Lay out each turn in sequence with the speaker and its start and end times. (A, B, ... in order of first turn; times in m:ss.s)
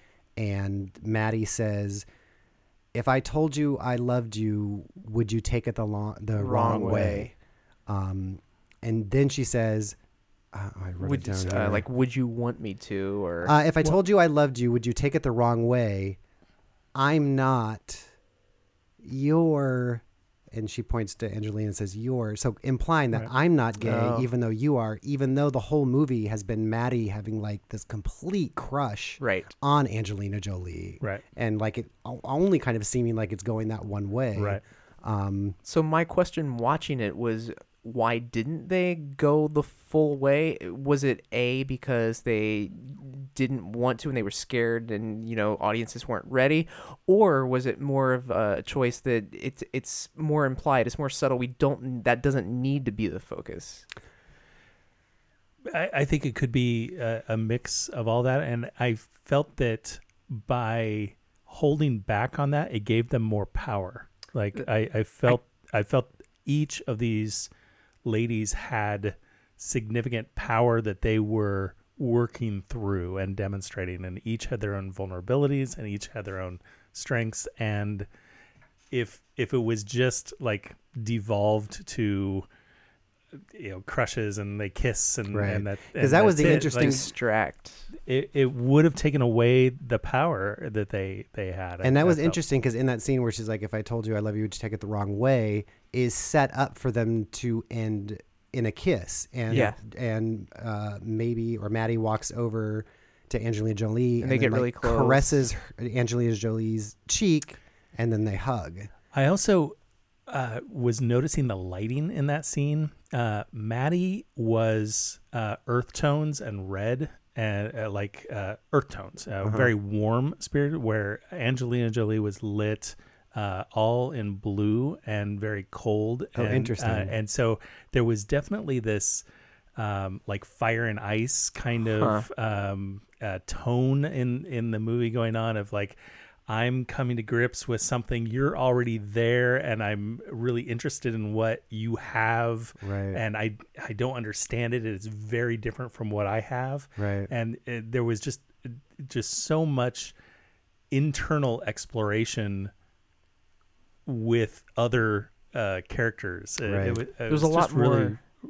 0:00.4-0:02.0 A
0:02.9-0:07.3 A
0:06.4-0:07.3 B
0:07.9-0:10.0 A
0:10.5-0:11.8 A
0:11.0-0:13.5 B
0:13.4-0:16.2 A
0:16.9-0:18.1 A
0:19.0-0:35.6 A
0:23.8-0:24.3 B
0:29.2-0:29.5 B
0:34.4-0:34.6 C
0:35.6-0:53.8 B
0:55.7-1:07.5 C
1:08.0-1:18.1 C
1:18.9-1:22.5 C
1:23.4-1:27.0 C
1:25.3-1:27.1 A
1:26.4-1:27.9 B
1:28.0-1:32.4 C
1:31.8-1:48.9 A
1:39.5-1:39.8 B
1:44.2-1:45.4 B
1:49.1-1:49.8 C
1:50.3-2:09.2 C
1:59.4-1:59.7 A
2:06.4-2:07.1 A
2:09.8-2:16.0 C
2:12.0-2:12.3 B
2:16.5-2:30.1 C
2:22.8-2:23.2 A
2:27.0-2:27.3 A
2:30.9-2:32.7 C
2:34.0-2:38.2 C
2:36.6-2:37.0 A
2:37.3-2:38.2 B